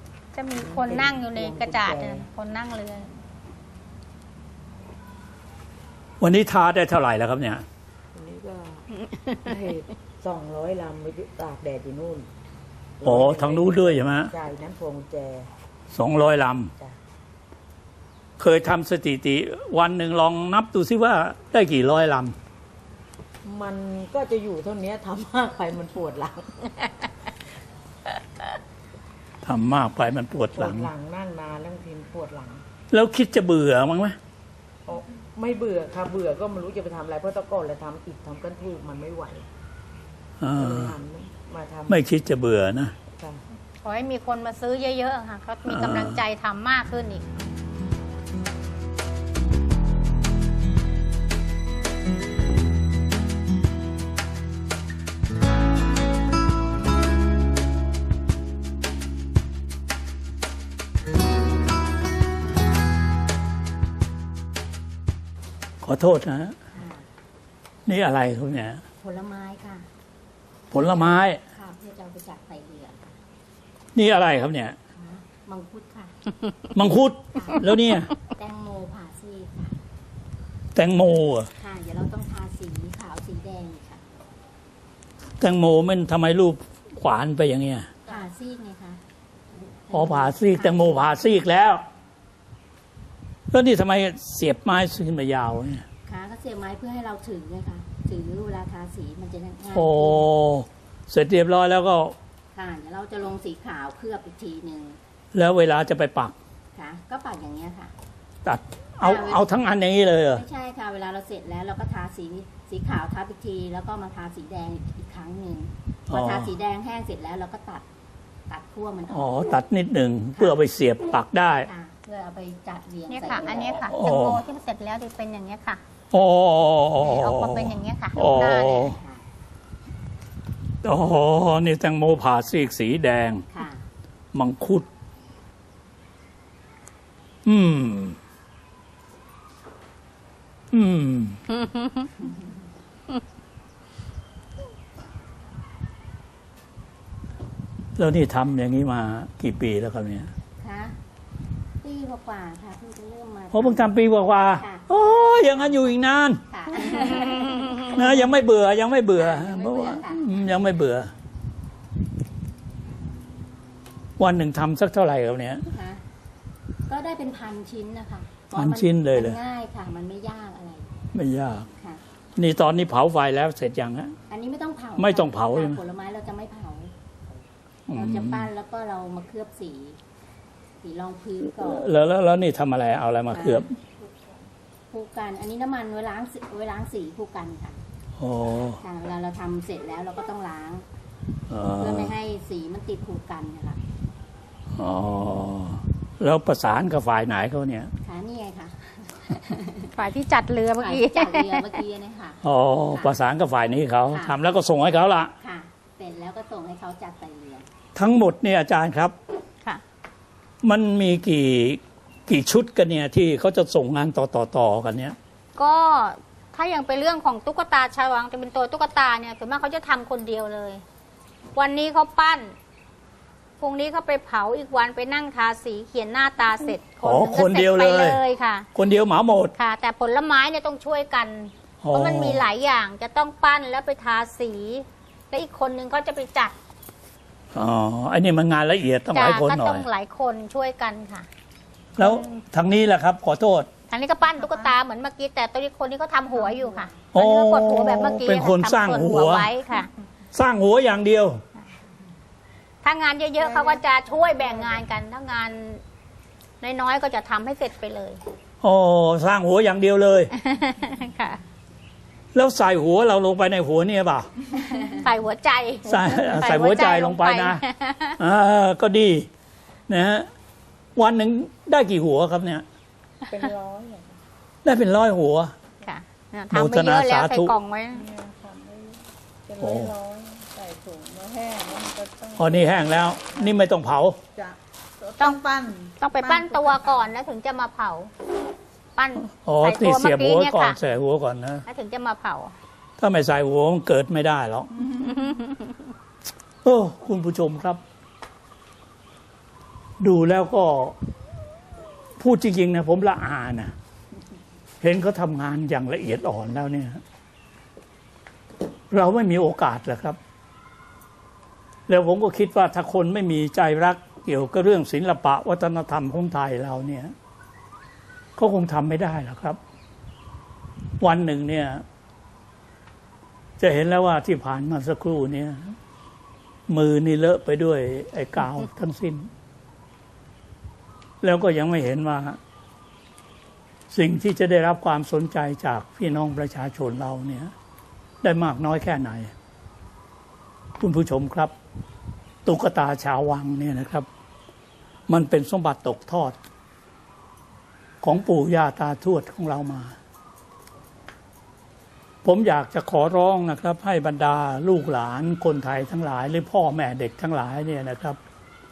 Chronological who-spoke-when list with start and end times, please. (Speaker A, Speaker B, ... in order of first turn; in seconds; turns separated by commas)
Speaker A: 0.3-3.1, Speaker B: 0.6-2.3, Speaker C: 6.2-7.6, Speaker B: 8.1-8.9, Speaker A: 9.3-9.5, Speaker B: 9.4-12.3, Speaker B: 13.0-15.5, Speaker C: 13.0-14.3, Speaker C: 15.9-16.7, Speaker C: 18.4-22.4, Speaker B: 23.4-26.9, Speaker C: 29.4-30.9, Speaker B: 30.5-32.6, Speaker C: 32.9-34.2, Speaker B: 34.9-39.5, Speaker C: 40.4-41.0, Speaker B: 40.5-42.0, Speaker C: 41.9-43.0, Speaker A: 43.8-47.2, Speaker C: 45.7-46.2, Speaker C: 65.8-66.5, Speaker D: 66.7-67.1, Speaker C: 67.9-68.8, Speaker D: 69.0-69.9, Speaker C: 70.7-71.4, Speaker D: 70.7-73.2, Speaker C: 74.0-74.8, Speaker D: 74.9-76.3, Speaker C: 76.7-78.1, Speaker D: 77.4-79.8, Speaker C: 80.8-81.5, Speaker D: 81.6-84.0, Speaker C: 85.4-87.9, Speaker D: 88.1-89.0, Speaker D: 89.9-91.2, Speaker C: 89.9-91.8, Speaker C: 93.5-95.8, Speaker D: 96.1-100.3, Speaker C: 99.7-102.2, Speaker D: 102.5-105.0, Speaker C: 105.3-106.3, Speaker D: 106.7-107.9, Speaker C: 108.5-110.4, Speaker D: 109.0-109.6, Speaker D: 110.3-117.9, Speaker C: 116.1-116.5, Speaker D: 118.5-119.6, Speaker C: 119.1-121.7, Speaker D: 120.3-120.7, Speaker D: 121.6-123.9, Speaker A: 123.1-125.8, Speaker C: 123.8-124.4, Speaker C: 126.1-129.0, Speaker A: 127.0-128.9, Speaker D: 128.9-129.2, Speaker C: 130.8-133.4, Speaker D: 133.5-133.9, Speaker C: 134.3-134.9, Speaker C: 137.5-138.2, Speaker C: 140.7-141.4, Speaker A: 141.5-142.1, Speaker C: 148.0-150.3, Speaker D: 150.6-151.0, Speaker D: 151.8-154.0, Speaker C: 153.5-161.1, Speaker D: 154.5-155.9, Speaker D: 156.5-158.4, Speaker D: 159.2-160.3, Speaker C: 164.2-165.7, Speaker D: 165.8-166.0, Speaker D: 166.9-170.9, Speaker C: 168.6-169.4, Speaker C: 171.1-171.7, Speaker D: 171.8-172.0, Speaker C: 172.4-174.2, Speaker D: 174.3-176.9, Speaker C: 175.0-175.8, Speaker C: 177.9-178.5, Speaker D: 177.9-180.0, Speaker D: 180.8-181.9, Speaker C: 181.5-183.7, Speaker D: 183.3-183.7, Speaker D: 184.9-187.8, Speaker C: 188.2-188.8, Speaker D: 188.8-190.9, Speaker C: 191.5-192.2, Speaker D: 191.8-193.8, Speaker C: 194.8-197.9, Speaker D: 198.0-199.9, Speaker A: 199.9-201.8, Speaker D: 200.8-203.2, Speaker C: 202.4-205.3, Speaker D: 204.1-204.5, Speaker D: 205.4-207.7, Speaker C: 207.9-209.1, Speaker C: 210.6-215.2, Speaker A: 215.6-220.8, Speaker A: 221.6-222.6, Speaker A: 223.6-228.7, Speaker C: 227.0-228.2, Speaker C: 228.8-229.5, Speaker A: 229.6-236.6, Speaker C: 231.8-232.4, Speaker C: 237.5-239.8, Speaker A: 239.1-241.3, Speaker C: 242.0-243.7, Speaker A: 242.0-242.4, Speaker A: 243.9-249.9, Speaker E: 244.4-244.7, Speaker C: 247.1-249.5, Speaker C: 250.3-251.4, Speaker A: 252.8-255.8, Speaker E: 253.4-253.8, Speaker A: 256.6-258.2, Speaker C: 258.6-260.3, Speaker A: 260.3-261.4, Speaker C: 262.3-264.3, Speaker A: 264.6-268.2, Speaker C: 265.9-267.6, Speaker C: 268.2-269.3, Speaker C: 269.9-270.3, Speaker C: 271.0-272.6, Speaker E: 273.4-274.1, Speaker C: 274.6-275.5, Speaker A: 275.8-278.1, Speaker C: 276.5-277.5, Speaker E: 278.2-279.0, Speaker C: 279.6-279.9, Speaker E: 279.6-282.7, Speaker C: 282.4-284.2, Speaker E: 285.0-286.6, Speaker A: 286.0-288.1, Speaker A: 288.9-290.8, Speaker C: 289.4-291.6, Speaker A: 291.7-292.6, Speaker C: 293.0-294.7, Speaker A: 295.1-295.8, Speaker C: 296.6-297.8, Speaker C: 300.0-300.9, Speaker C: 302.2-303.7, Speaker C: 304.8-307.0, Speaker C: 308.9-310.2, Speaker C: 311.9-317.1, Speaker C: 318.4-319.6, Speaker C: 321.0-321.8, Speaker C: 323.6-325.8, Speaker C: 326.7-329.3, Speaker C: 331.2-332.4, Speaker C: 333.9-337.5, Speaker C: 338.2-339.3, Speaker C: 340.8-341.5, Speaker C: 342.4-344.1, Speaker C: 345.1-346.4, Speaker C: 348.0-350.0, Speaker C: 352.2-358.2